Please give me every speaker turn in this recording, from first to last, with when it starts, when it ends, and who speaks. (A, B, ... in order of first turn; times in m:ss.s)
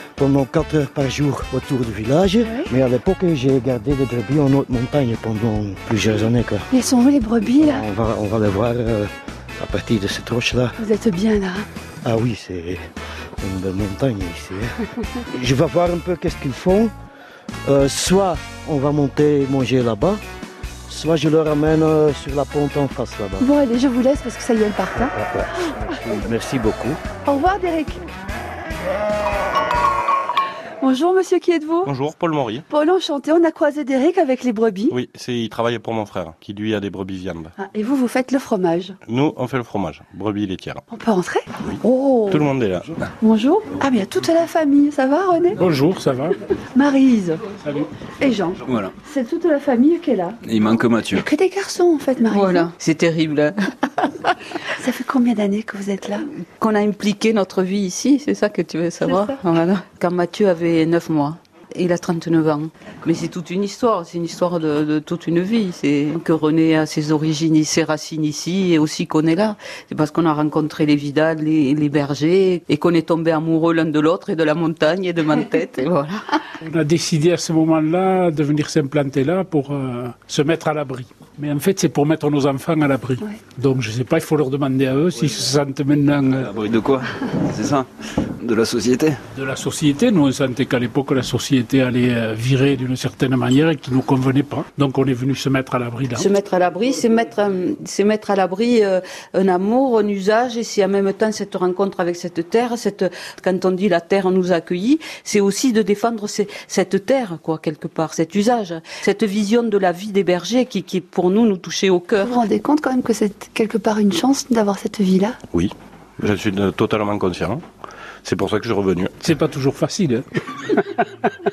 0:00.2-0:06.7 A
0:02.4-0:02.7 B
0:06.7-0:07.8 B
0:07.5-0:10.8 A
0:10.8-0:11.6 B
0:12.0-0:12.8 A
0:13.4-0:16.9 A
0:17.7-0:20.2 A
0:20.9-0:23.5 A
0:23.4-0:25.7 B
0:24.9-0:27.0 A
0:27.2-0:28.0 B
0:30.8-0:31.9 B
0:31.8-0:32.6 C
0:32.7-0:35.0 B
0:34.9-0:37.5 C
0:37.6-0:39.0 B
0:39.0-0:40.8 C
0:40.9-0:42.5 B
0:41.6-0:43.0 C
0:43.2-0:45.6 B
0:45.6-0:46.4 D
0:46.7-0:47.4 B
0:47.6-0:47.9 D
0:48.2-0:50.4 B
0:48.6-0:48.9 E
0:50.4-0:51.2 E
0:51.1-0:52.7 B
0:52.2-0:54.4 F
0:54.8-0:56.3 B
0:56.6-1:16.4 F
0:59.0-0:59.4 B
1:16.6-1:26.5 D
1:26.4-1:29.2 E
1:29.3-1:36.3 D
1:36.1-1:52.4 F
1:52.2-1:55.4 B
1:55.5-1:57.6 C
1:58.2-1:59.1 C
1:59.2-2:01.3 D